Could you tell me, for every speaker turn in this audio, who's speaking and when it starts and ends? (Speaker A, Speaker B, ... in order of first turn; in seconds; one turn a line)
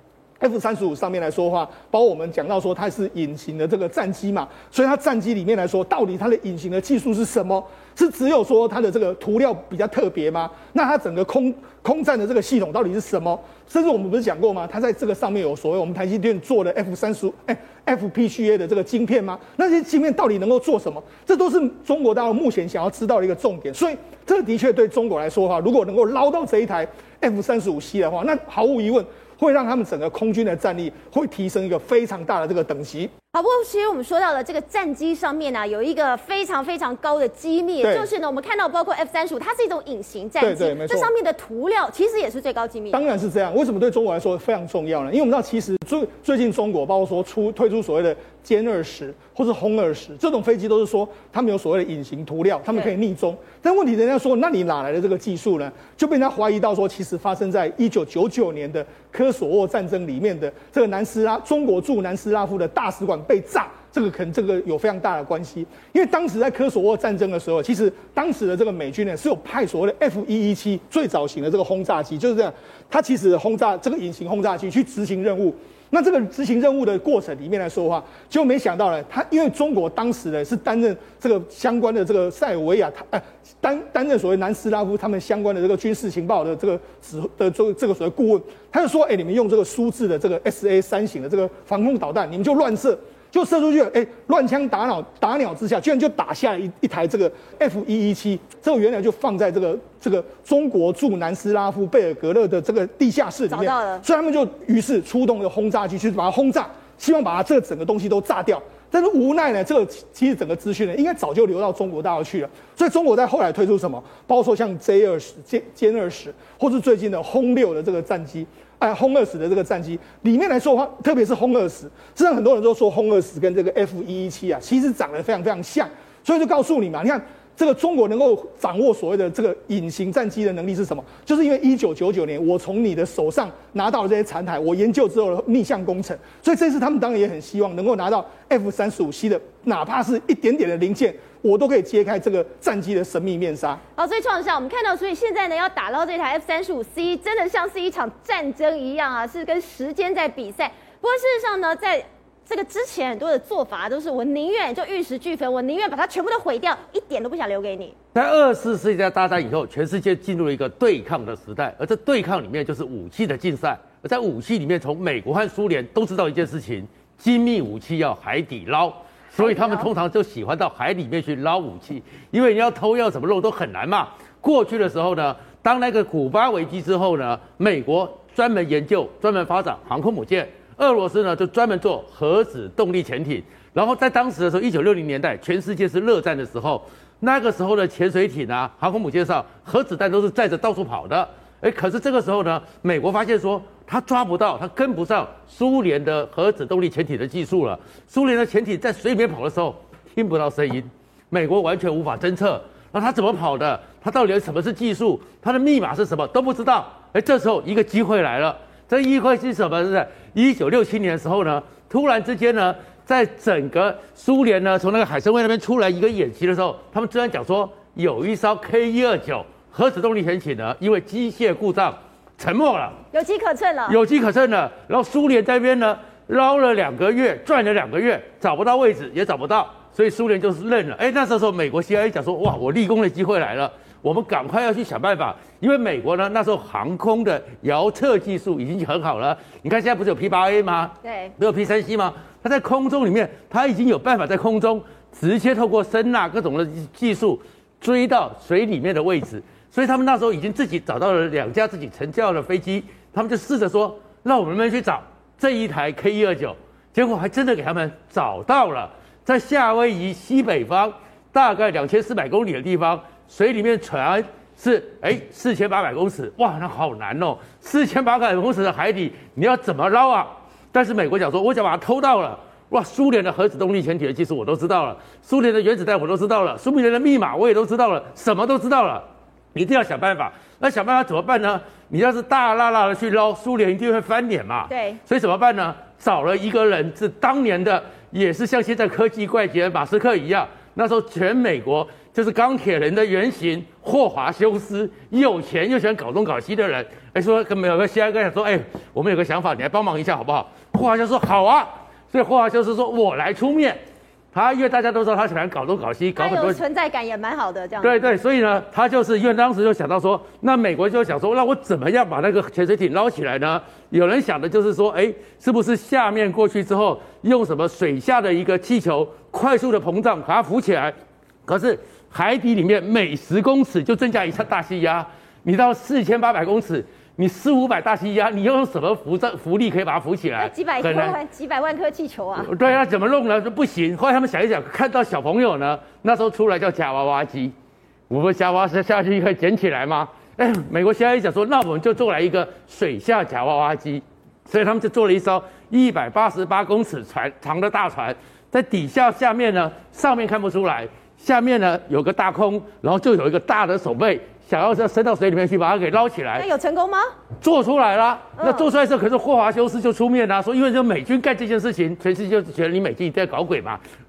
Speaker A: 0.4-33.1
Speaker B: 33.3-43.0
Speaker A: 37.8-38.1
Speaker A: 40.4-41.1
Speaker A: 42.9-143.8
Speaker B: 103.5-104.0
Speaker B: 144.0-157.9
Speaker C: 158.1-223.0
Speaker B: 169.4-169.9
Speaker B: 223.1-224.0
Speaker C: 223.9-303.8
Speaker B: 241.0-241.3
Speaker B: 284.7-285.0
Speaker C: 304.3-306.6
Speaker B: 306.2-308.1
Speaker C: 307.8-320.9
Speaker C: 321.5-331.2
Speaker B: 330.4-332.5
Speaker C: 332.4-337.5
Speaker C: 338.1-356.5
Speaker B: 356.4-357.1
Speaker C: 357.4-363.8
Speaker B: 358.4-358.7